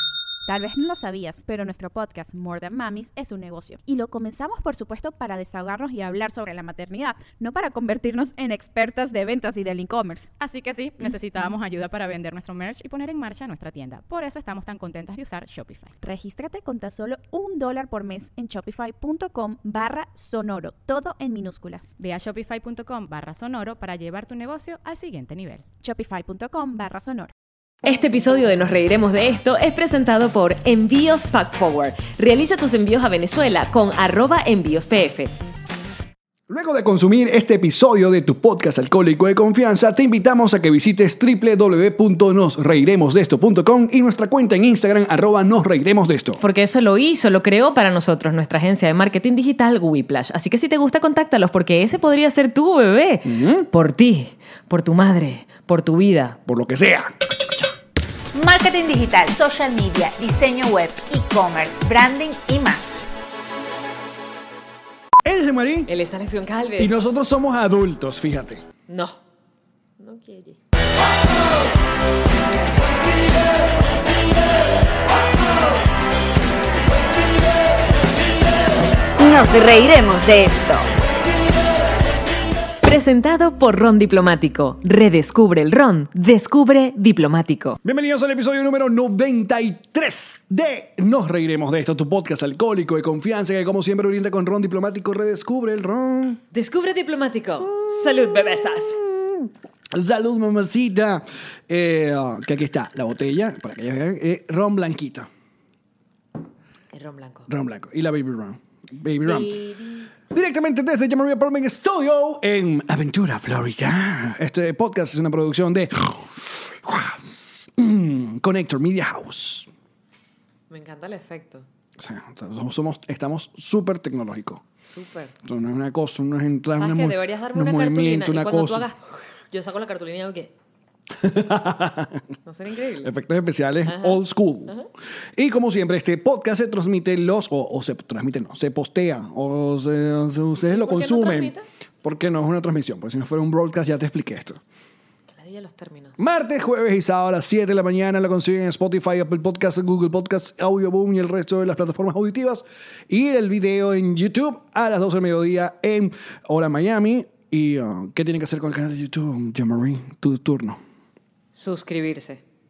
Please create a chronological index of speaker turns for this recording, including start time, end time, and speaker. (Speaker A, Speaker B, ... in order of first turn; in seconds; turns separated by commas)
Speaker A: 0.5-10.3, Speaker B: 10.4-15.9, Speaker A: 16.0-21.9, Speaker B: 22.0-25.6, Speaker A: 25.8-27.3, Speaker C: 27.8-35.3, Speaker D: 36.5-46.4, Speaker C: 46.4-56.4, Speaker D: 53.2-53.7, Speaker D: 56.5-57.1, Speaker E: 58.3-63.1, Speaker D: 65.2-65.9, Speaker C: 65.9-67.0, Speaker D: 66.8-68.6, Speaker C: 68.9-69.2, Speaker C: 70.0-70.6, Speaker E: 79.2-80.9, Speaker C: 82.8-87.8, Speaker D: 87.8-96.4, Speaker C: 96.5-99.0, Speaker D: 97.8-105.3, Speaker C: 106.9-107.5, Speaker D: 107.5-109.6, Speaker C: 109.2-110.1, Speaker D: 110.3-119.7, Speaker C: 120.7-121.7, Speaker D: 122.0-124.6, Speaker C: 124.8-125.3, Speaker D: 125.4-128.9, Speaker C: 126.7-130.5, Speaker D: 131.2-132.2, Speaker C: 132.4-133.1, Speaker D: 133.0-134.8, Speaker C: 133.8-134.9, Speaker D: 135.3-144.6, Speaker C: 140.6-141.6, Speaker C: 145.3-146.2, Speaker D: 146.2-160.8, Speaker C: 161.5-162.4